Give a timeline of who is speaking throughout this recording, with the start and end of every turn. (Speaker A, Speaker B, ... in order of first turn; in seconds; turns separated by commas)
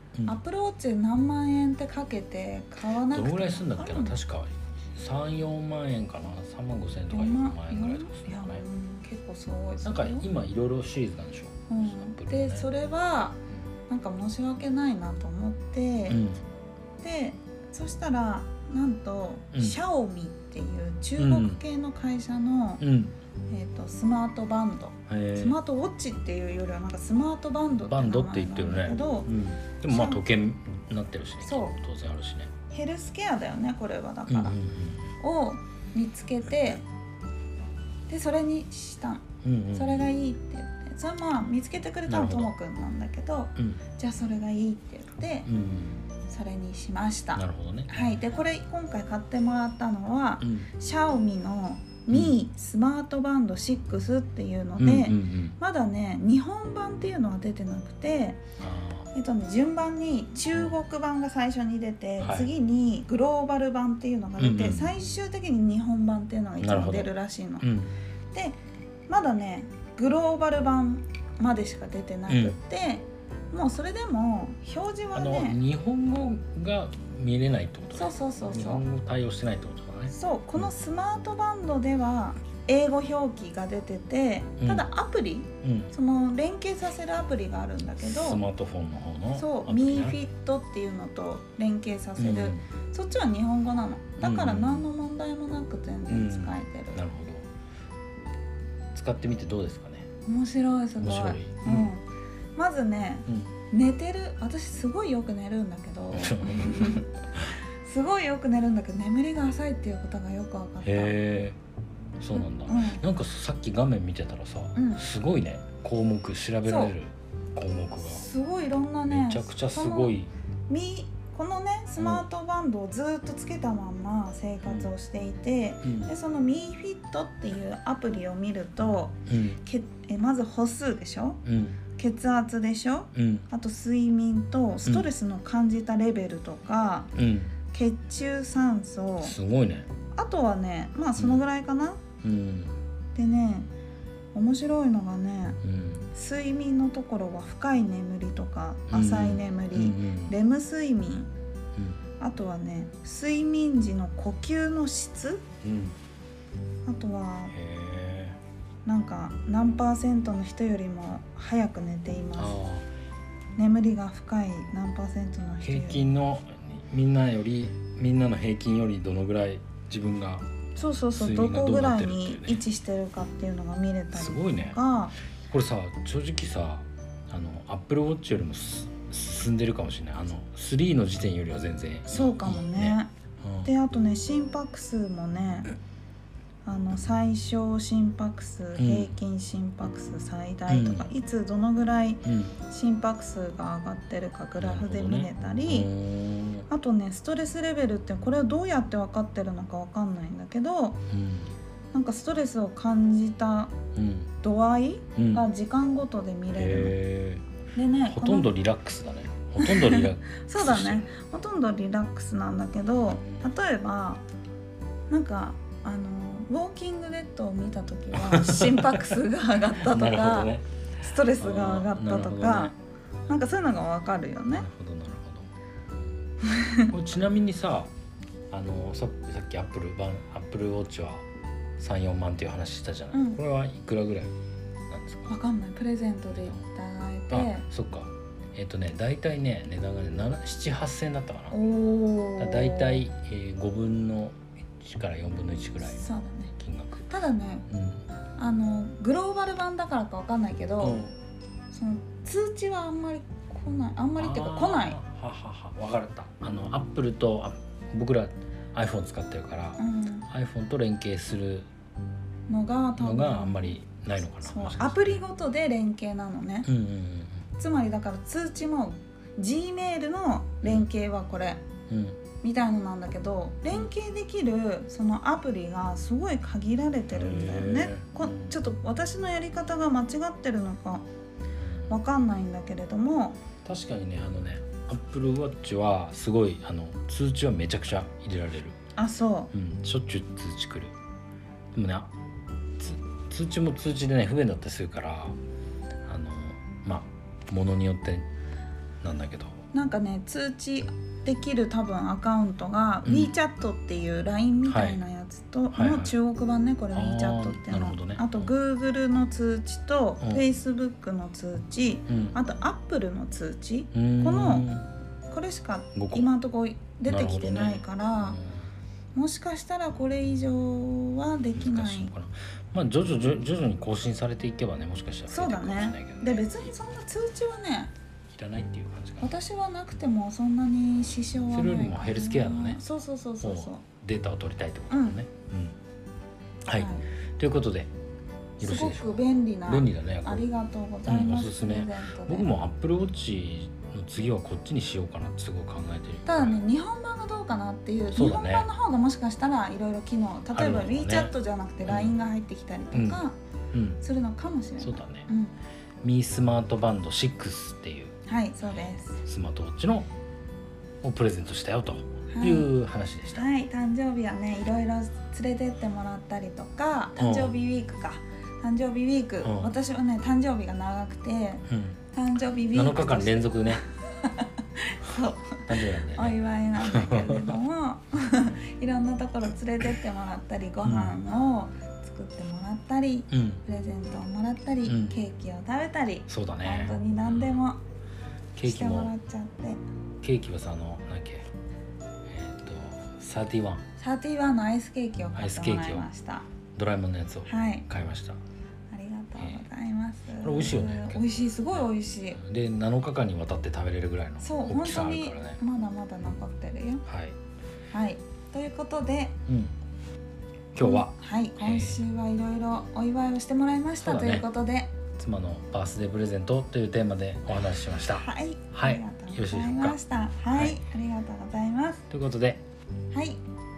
Speaker A: 0.3-4.2, Speaker B: 3.1-8.6, Speaker A: 7.1-10.3, Speaker B: 9.8-12.7, Speaker A: 11.7-16.2, Speaker B: 16.1-16.4, Speaker A: 17.0-22.8, Speaker B: 21.2-21.6, Speaker B: 22.8-23.1, Speaker A: 23.5-29.3, Speaker B: 25.1-25.6, Speaker B: 27.7-32.5, Speaker A: 29.9-30.2, Speaker A: 31.4-31.8, Speaker A: 32.7-34.6, Speaker B: 34.3-35.1, Speaker A: 35.2-36.9, Speaker A: 38.1-45.5, Speaker B: 39.4-40.1, Speaker B: 42.1-42.5, Speaker B: 43.6-43.8, Speaker B: 45.5-46.0, Speaker A: 46.3-58.4, Speaker B: 47.4-48.0, Speaker B: 50.4-50.7, Speaker B: 52.1-52.4, Speaker B: 54.8-55.6, Speaker B: 58.6-59.1, Speaker A: 59.1-67.7, Speaker B: 62.2-62.5, Speaker B: 64.4-65.0, Speaker B: 66.6-67.9, Speaker A: 68.3-75.6, Speaker B: 72.3-72.6, Speaker B: 75.2-80.7, Speaker A: 77.9-78.8, Speaker A: 80.1-88.4, Speaker B: 84.6-84.9, Speaker B: 85.6-85.9, Speaker B: 88.0-90.2, Speaker A: 89.3-97.0, Speaker B: 92.2-92.6, Speaker B: 94.2-94.9, Speaker B: 96.1-97.5, Speaker B: 98.9-100.1, Speaker A: 100.2-102.0, Speaker B: 101.0-101.9, Speaker A: 102.6-107.2, Speaker B: 106.1-107.4, Speaker A: 107.8-111.2, Speaker B: 110.8-111.6, Speaker B: 112.2-118.2, Speaker A: 112.3-113.0, Speaker A: 114.8-115.0, Speaker A: 116.6-117.0, Speaker A: 118.0-120.1, Speaker B: 119.1-120.3, Speaker A: 120.7-131.4, Speaker B: 122.0-122.3, Speaker B: 124.6-124.9, Speaker B: 125.8-126.1, Speaker B: 129.3-129.6, Speaker B: 131.4-131.8, Speaker A: 131.9-137.1, Speaker B: 133.1-133.5, Speaker B: 137.2-137.6, Speaker A: 137.7-139.3, Speaker B: 139.2-139.9, Speaker A: 140.1-142.0, Speaker B: 141.2-141.4, Speaker B: 142.2-142.8, Speaker A: 143.2-143.7, Speaker A: 144.3-145.6, Speaker B: 145.6-146.1, Speaker A: 146.1-151.3, Speaker B: 148.9-150.3, Speaker B: 151.8-152.0, Speaker A: 152.2-155.4, Speaker B: 155.6-156.0, Speaker A: 156.9-157.5, Speaker B: 157.5-158.4, Speaker A: 158.9-162.6, Speaker B: 162.4-162.9, Speaker A: 163.6-166.1, Speaker B: 165.6-170.5, Speaker A: 170.8-175.2, Speaker B: 171.1-172.6, Speaker B: 174.1-174.8, Speaker B: 175.5-183.7, Speaker A: 182.1-183.1, Speaker A: 183.7-185.7, Speaker A: 186.7-195.9, Speaker B: 188.8-189.1, Speaker B: 190.7-191.1, Speaker B: 192.2-192.6, Speaker B: 194.6-196.7, Speaker A: 196.7-201.0, Speaker B: 201.1-201.5, Speaker A: 201.9-203.8, Speaker B: 203.9-204.3, Speaker A: 204.4-207.0, Speaker B: 205.2-205.4, Speaker B: 206.6-207.4, Speaker A: 207.7-208.5, Speaker B: 208.1-211.1, Speaker A: 209.6-214.2, Speaker B: 213.1-213.5, Speaker A: 215.1-222.7, Speaker B: 218.1-219.1, Speaker B: 219.8-220.7, Speaker B: 221.3-222.8, Speaker A: 223.3-224.7, Speaker B: 224.5-225.5, Speaker A: 226.4-226.9, Speaker B: 226.9-227.9, Speaker B: 228.5-231.2, Speaker B: 231.8-234.3, Speaker A: 233.1-233.4, Speaker B: 234.9-235.3, Speaker A: 235.3-237.7, Speaker B: 236.3-236.6, Speaker B: 237.3-241.6, Speaker A: 241.5-243.0, Speaker B: 242.4-246.0, Speaker A: 245.8-246.5, Speaker B: 246.6-247.1, Speaker A: 247.1-247.7, Speaker B: 247.7-248.0, Speaker A: 248.4-251.0, Speaker B: 250.8-251.1, Speaker A: 251.7-255.0, Speaker B: 254.2-261.7, Speaker A: 259.8-260.3, Speaker A: 262.5-263.8, Speaker B: 263.0-265.2, Speaker A: 264.4-266.7, Speaker B: 266.6-267.4, Speaker A: 267.6-271.6, Speaker B: 270.6-270.9, Speaker B: 271.9-272.2, Speaker A: 272.4-281.1, Speaker B: 277.1-278.6, Speaker B: 281.6-282.0, Speaker A: 281.9-283.4, Speaker B: 283.6-288.8, Speaker A: 289.0-289.5, Speaker B: 289.5-290.9, Speaker B: 291.7-292.1, Speaker B: 292.8-295.4, Speaker B: 296.1-298.3, Speaker B: 299.0-299.6, Speaker A: 299.7-314.7, Speaker B: 303.1-303.4, Speaker B: 304.6-305.0, Speaker B: 305.7-306.1, Speaker B: 306.9-308.5, Speaker B: 312.1-312.4, Speaker B: 313.9-314.9, Speaker A: 315.3-318.4, Speaker B: 315.9-316.3, Speaker B: 317.1-318.6, Speaker A: 319.1-322.1, Speaker B: 321.6-326.7, Speaker A: 325.3-327.9, Speaker B: 328.3-329.3, Speaker A: 329.2-333.8, Speaker B: 331.5-332.8, Speaker B: 333.4-335.8, Speaker A: 334.9-335.2, Speaker B: 336.7-337.9, Speaker A: 336.7-337.0, Speaker B: 338.6-340.5, Speaker A: 338.6-342.5, Speaker B: 341.1-346.6, Speaker A: 346.2-353.4, Speaker B: 348.1-348.7, Speaker B: 350.5-351.3, Speaker B: 351.9-352.2, Speaker B: 352.9-354.0, Speaker A: 354.0-355.5, Speaker B: 354.8-355.3, Speaker B: 356.0-358.1, Speaker A: 358.3-359.2, Speaker B: 359.2-360.1, Speaker B: 361.0-363.5, Speaker A: 362.3-362.7, Speaker A: 363.3-387.8, Speaker B: 367.2-367.5, Speaker B: 369.4-369.7, Speaker B: 371.7-372.0, Speaker B: 372.7-373.8, Speaker B: 375.6-377.5, Speaker B: 380.8-381.2, Speaker B: 383.3-383.6, Speaker B: 384.9-385.2, Speaker B: 386.3-387.6, Speaker B: 388.6-389.1, Speaker A: 388.6-389.8, Speaker B: 390.2-391.5, Speaker B: 392.3-393.8, Speaker A: 394.0-396.5, Speaker B: 395.4-396.1, Speaker B: 396.8-398.4, Speaker A: 397.4-397.9, Speaker A: 398.9-402.4, Speaker B: 399.4-399.6, Speaker B: 400.4-405.6, Speaker A: 404.4-407.1, Speaker B: 407.1-407.4, Speaker A: 407.9-409.4, Speaker B: 409.5-409.7, Speaker B: 410.7-412.0, Speaker A: 410.8-414.9, Speaker B: 414.0-414.5, Speaker B: 415.2-420.0, Speaker A: 418.1-422.1, Speaker B: 420.5-420.8, Speaker B: 422.1-422.6, Speaker A: 423.1-423.4